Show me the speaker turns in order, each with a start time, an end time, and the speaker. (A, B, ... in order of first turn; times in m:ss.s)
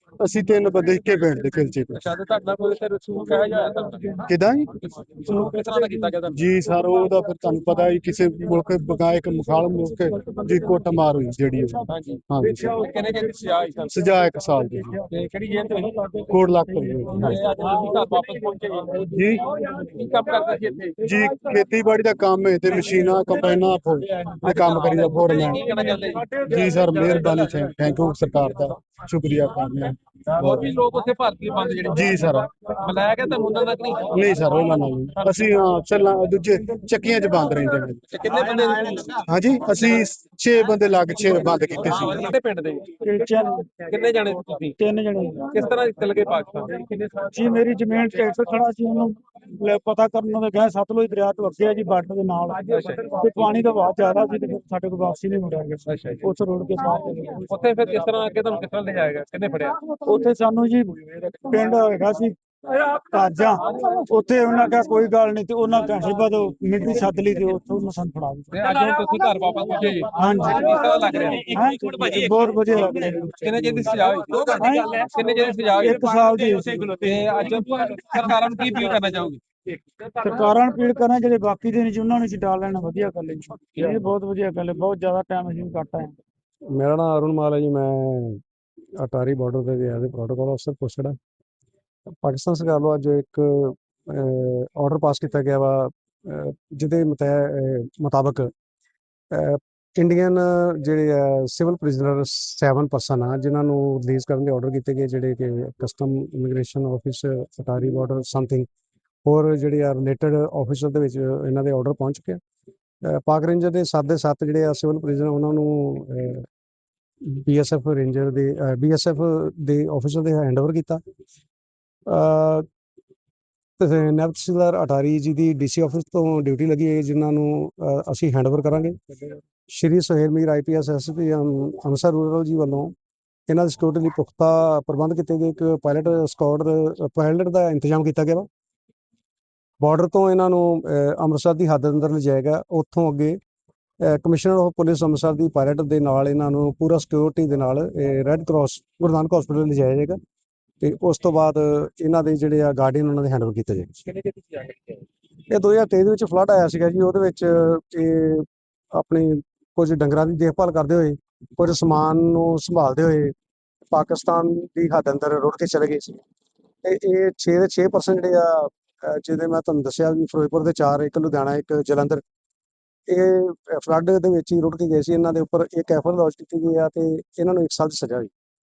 0:00.2-0:02.0 A
0:01.9-0:04.2 B
0:04.3-0:04.7 A
0:04.8-0:06.4 B
0:06.3-0:12.8 A
0:11.9-0:14.0 B
0:13.9-0:15.0 A
0:15.1-0:16.2 B
0:16.3-0:17.4 A
0:17.1-0:21.0 B
0:19.1-0:19.4 A
0:21.0-0:25.7 A
0:24.4-0:26.4 B
0:26.4-0:30.8 A
0:30.3-0:34.2 B
0:31.9-0:32.5 A
0:34.1-0:38.0 A
0:38.1-0:39.2 B
0:39.2-0:42.3 A
0:41.6-0:42.9 B
0:43.0-0:43.7 C
0:43.8-0:44.8 B
0:44.8-0:45.5 C
0:45.5-0:47.3 B
0:47.3-0:57.4 C
0:52.7-0:53.1 B
0:55.9-0:56.2 B
0:57.4-0:59.8 B
0:59.9-1:09.0 C
1:08.5-1:11.5 B
1:10.1-1:13.6 C
1:13.3-1:19.4 B
1:14.5-1:15.0 C
1:15.8-1:17.0 C
1:20.2-1:26.2 C
1:26.7-1:28.4 D
1:29.0-1:31.2 D
1:32.2-1:38.5 D
1:39.3-1:48.7 D
1:49.2-1:52.4 D
1:53.0-1:56.4 D
1:57.2-2:01.0 D
2:02.1-2:02.7 D
2:03.8-2:09.0 D
2:09.7-2:12.9 D
2:13.5-2:18.5 D
2:19.8-2:23.4 D
2:24.0-2:30.2 D
2:30.8-2:34.0 D
2:34.2-2:34.7 B
2:35.5-2:43.3 D
2:43.9-2:46.2 D
2:46.8-2:52.2 D
2:53.1-2:58.3 D